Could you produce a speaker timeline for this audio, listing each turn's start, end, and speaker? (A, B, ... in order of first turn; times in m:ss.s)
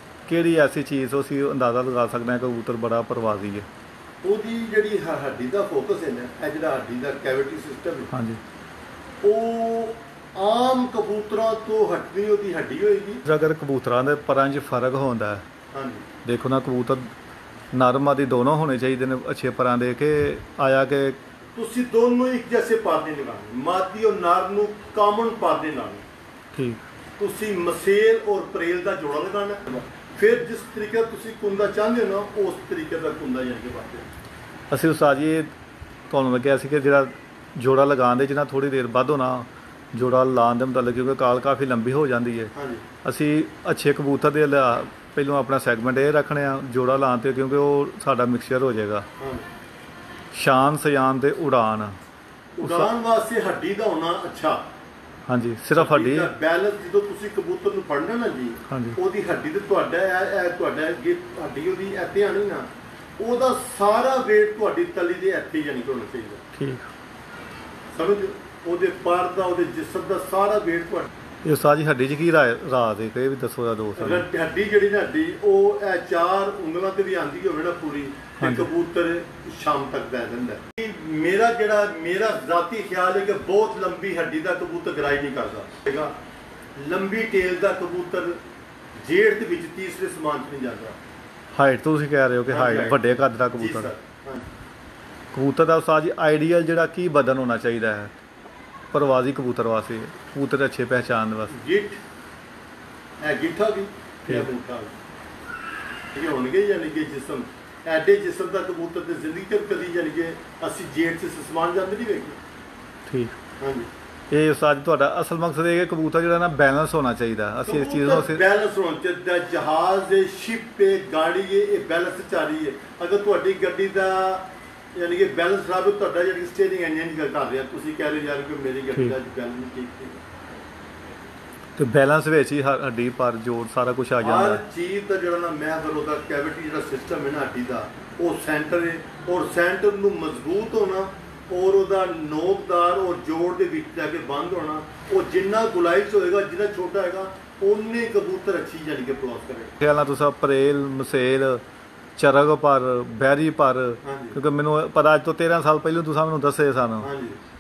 0:00.3-0:03.7 A
0:04.2-0:08.1 B
0:08.1-0:08.4 A
0:09.2-0:13.2 B
0:13.2-0:15.5 A
0:15.7-0:16.0 B
0:16.2-0:17.1 A
0:17.7-0:21.2 A
0:21.6-0:26.0 B
0:26.5-0:26.8 A
0:27.2-0:34.1 B
0:34.7-0:35.5 A
0:36.1-0:42.5 A
0:42.6-0:42.8 B
0:43.0-0:49.1 A
0:49.2-0:49.5 B
0:50.3-0:52.0 A
0:52.6-0:54.6 B
0:52.6-0:52.9 A
0:55.3-0:56.3 A
0:55.8-1:02.7 B
0:58.7-0:59.0 A
1:03.2-1:06.4 B
1:06.6-1:06.9 A
1:07.9-1:11.1 B
1:11.4-1:14.3 A
1:14.0-1:26.1 B
1:18.4-1:18.7 A
1:26.8-1:28.4 B
1:29.0-1:31.0 B
1:31.5-1:33.9 A
1:32.5-1:33.0 B
1:33.6-1:34.5 B
1:35.3-1:38.1 A
1:38.9-1:41.6 A
1:41.5-1:42.0 B
1:43.2-1:44.9 B
1:46.1-1:52.4 B
1:53.1-1:53.4 A
1:53.6-1:53.9 B
1:54.3-1:58.4 A
1:57.7-2:10.2 B
2:11.8-2:14.6 A
2:14.2-2:29.7 B
2:29.8-2:31.6 A
2:32.2-2:37.1 A
2:34.0-2:34.4 B
2:37.0-2:37.4 B